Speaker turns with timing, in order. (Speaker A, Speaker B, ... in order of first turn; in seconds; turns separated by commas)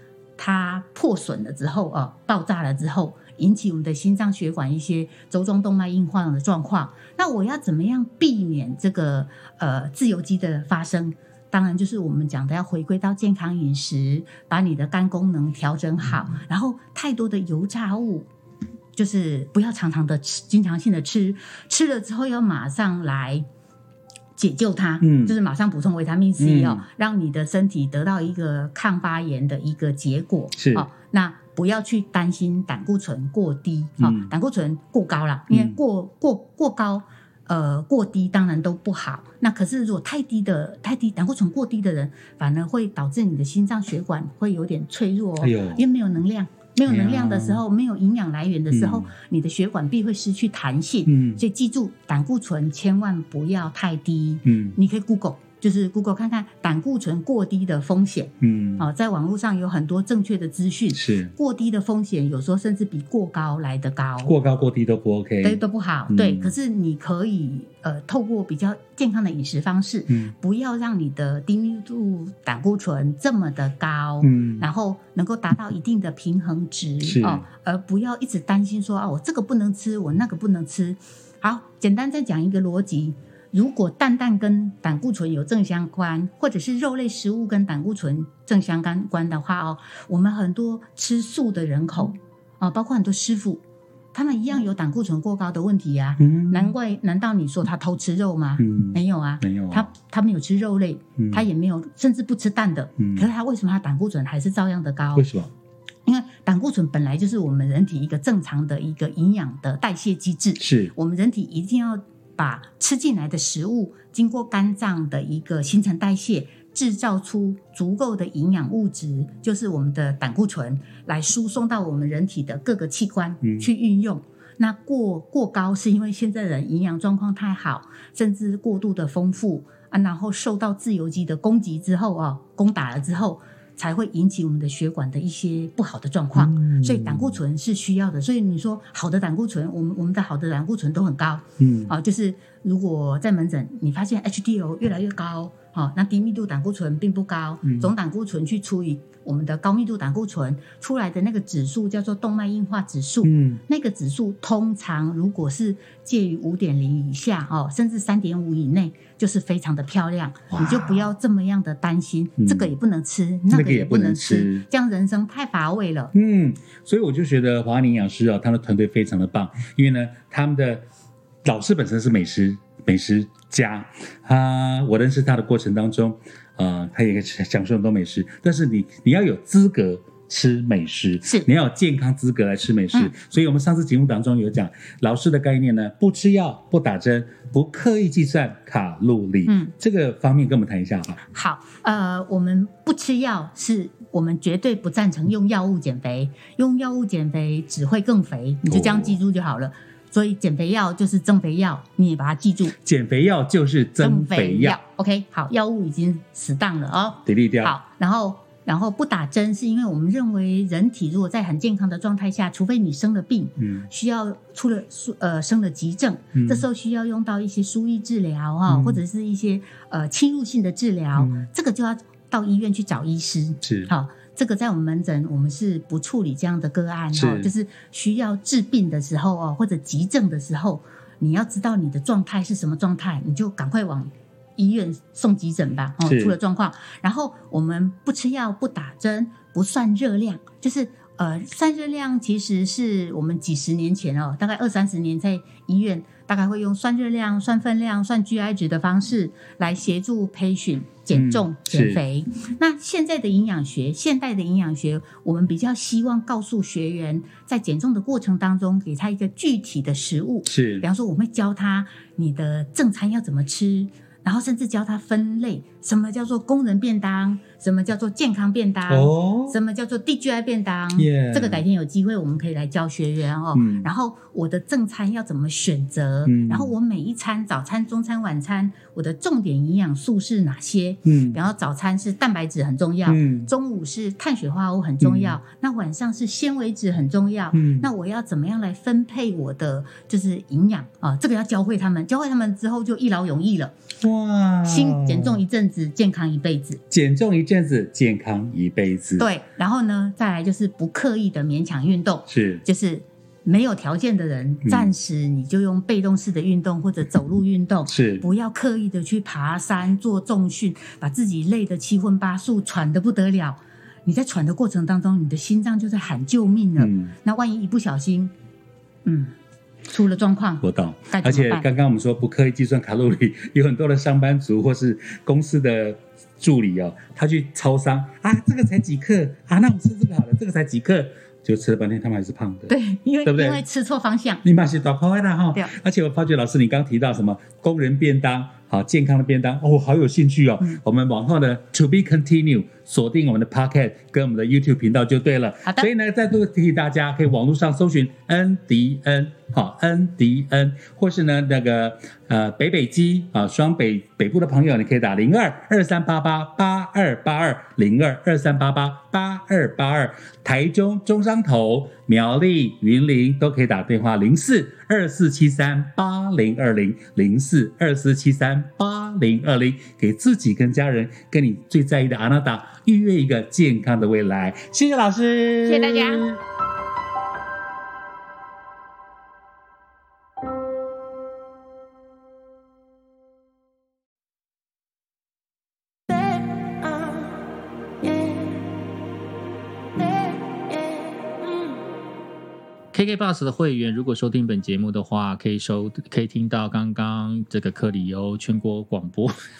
Speaker A: 0.4-18.3, Speaker A: 18.9-23.4, Speaker A: 24.4-64.3, Speaker B: 25.0-25.4, Speaker B: 26.4-26.8, Speaker B: 30.6-30.9, Speaker B: 34.0-34.3, Speaker B: 45.4-45.8, Speaker B: 46.8-47.6, Speaker B: 48.7-49.1, Speaker B: 51.1-51.4, Speaker B: 54.4-54.8, Speaker B: 58.4-58.9, Speaker B: 60.9-61.3, Speaker B: 64.2-66.5, Speaker A: 65.4-93.6, Speaker B: 74.2-74.6, Speaker B: 77.0-77.4, Speaker A: 94.1-105.3, Speaker B: 96.2-96.7, Speaker B: 98.6-99.9, Speaker B: 101.2-101.5, Speaker B: 103.0-103.3, Speaker B: 105.2-105.5, Speaker A: 106.0-166.1, Speaker B: 110.6-110.9, Speaker B: 123.4-123.7, Speaker B: 136.3-137.4, Speaker B: 141.6-141.9, Speaker B: 147.6-147.9, Speaker B: 153.2-153.6, Speaker B: 160.5-161.1, Speaker B: 162.4-162.7, Speaker B: 163.5-164.6, Speaker B: 166.1-170.8, Speaker B: 171.4-191.2, Speaker A: 189.5-189.7, Speaker A: 191.3-202.8, Speaker B: 198.6-199.2, Speaker B: 202.8-204.8, Speaker A: 204.0-293.7, Speaker B: 207.2-207.7, Speaker B: 213.6-213.9, Speaker B: 216.3-216.7, Speaker B: 218.7-219.0, Speaker B: 221.1-221.5, Speaker B: 223.6-223.9, Speaker B: 227.1-227.5, Speaker B: 236.0-236.4, Speaker B: 251.1-252.0, Speaker B: 260.4-260.8, Speaker B: 268.9-269.6, Speaker B: 270.9-271.6, Speaker B: 273.5-273.9, Speaker B: 276.2-276.7, Speaker B: 281.0-281.4, Speaker B: 283.1-283.5, Speaker B: 285.0-285.4, Speaker B: 287.5-287.9, Speaker B: 294.0-295.4, Speaker A: 294.6-296.8, Speaker B: 296.9-299.3, Speaker A: 299.2-318.3, Speaker B: 302.3-302.6, Speaker B: 304.6-304.9, Speaker B: 307.9-308.2, Speaker B: 316.8-317.1, Speaker A: 319.0-319.3, Speaker A: 319.9-321.6, Speaker B: 320.6-332.7, Speaker A: 332.7-334.4, Speaker B: 333.2-333.6, Speaker B: 334.4-376.4, Speaker A: 375.6-376.2, Speaker C: 392.9-399.4